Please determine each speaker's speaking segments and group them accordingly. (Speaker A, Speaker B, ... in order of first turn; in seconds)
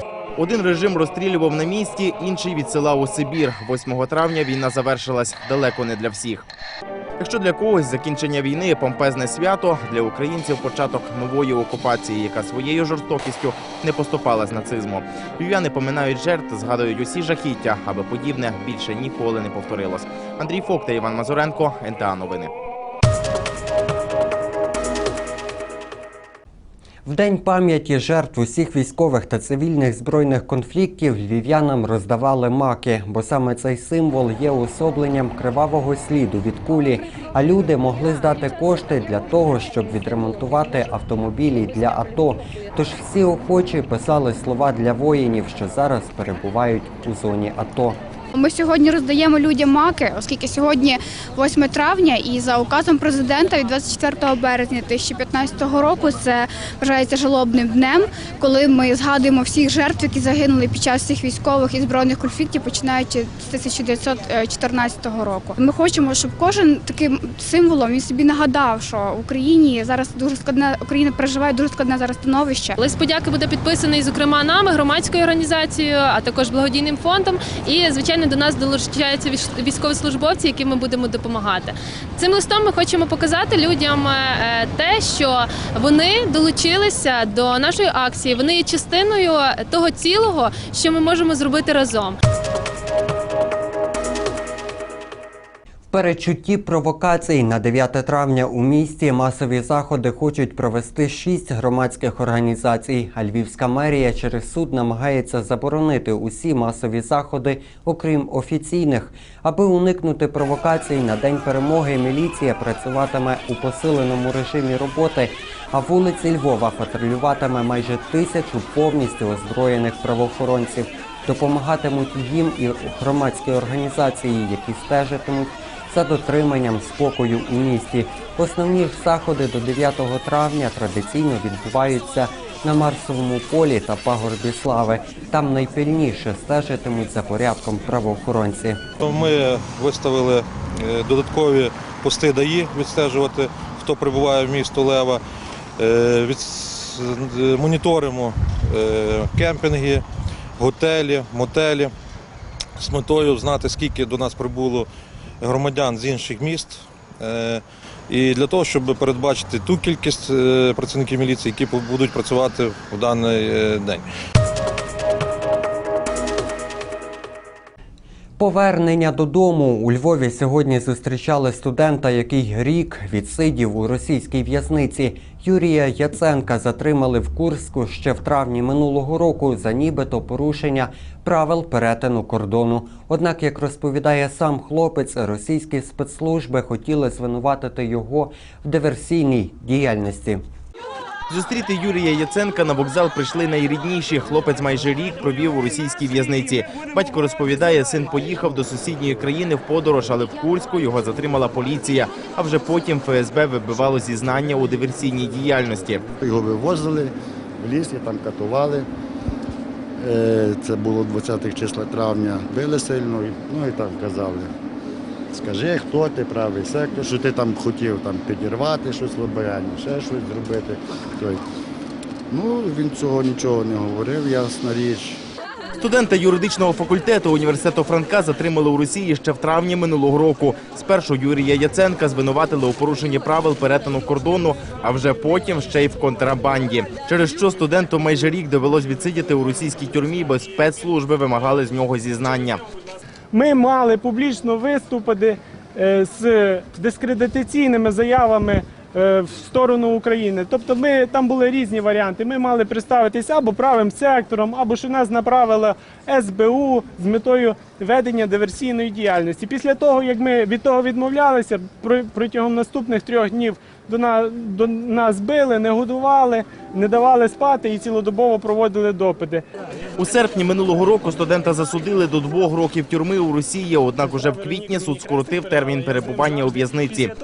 Speaker A: 0.3-6.4, 7.2-22.5, 191.3-206.0, 225.8-242.6, 270.0-277.1
Speaker B: 27.1-48.0, 95.9-138.8, 168.4-190.4
Speaker C: 48.3-72.8
Speaker D: 72.8-92.1
Speaker E: 139.0-145.2, 145.8-150.0, 150.6-151.9, 152.8-154.9, 155.4-164.0
Speaker F: 206.2-208.9, 210.0-214.5, 215.3-221.4, 222.3-225.2
Speaker G: 243.3-269.4